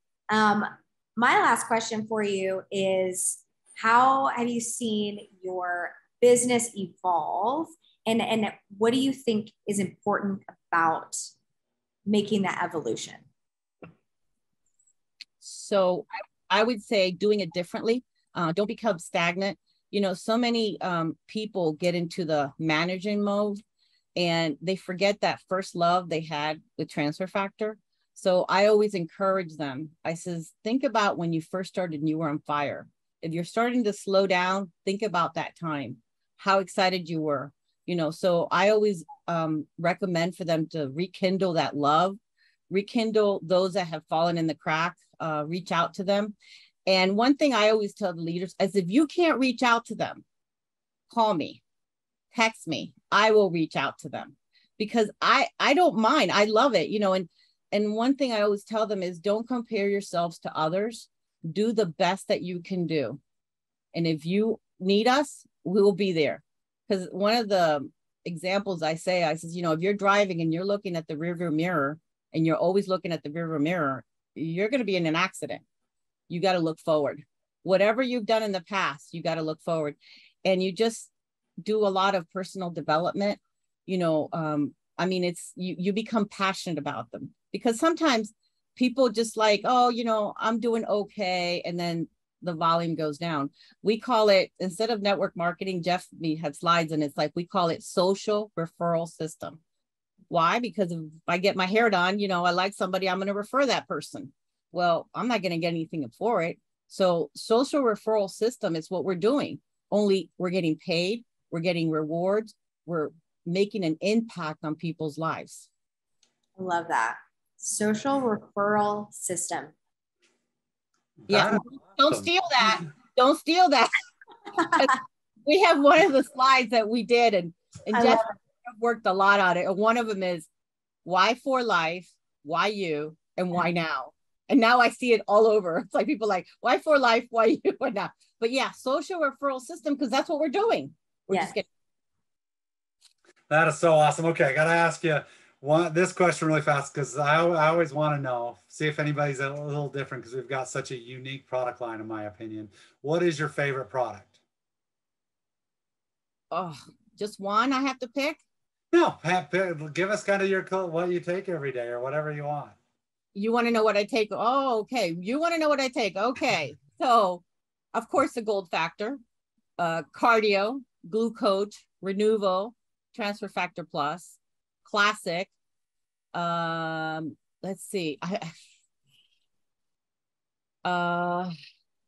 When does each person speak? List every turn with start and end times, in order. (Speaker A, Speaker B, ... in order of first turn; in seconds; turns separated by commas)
Speaker A: 0.3-11.3, Speaker A: 12.1-13.3, Speaker B: 15.4-23.6, Speaker B: 24.2-42.2, Speaker B: 42.7-46.4, Speaker B: 46.9-50.2, Speaker B: 51.1-51.6, Speaker B: 52.3-63.2, Speaker B: 63.9-75.6, Speaker B: 76.3-81.1, Speaker B: 81.6-99.6, Speaker B: 100.3-115.7, Speaker A: 116.6-119.7, Speaker C: 121.2-122.3, Speaker B: 121.3-123.9, Speaker B: 124.7-130.5, Speaker A: 127.9-128.3, Speaker B: 131.1-141.7, Speaker A: 141.3-141.6, Speaker C: 143.5-154.4, Speaker B: 156.5-158.4, Speaker C: 158.9-162.8, Speaker B: 163.3-169.2, Speaker B: 169.8-175.5, Speaker B: 176.3-178.5, Speaker B: 180.8-181.5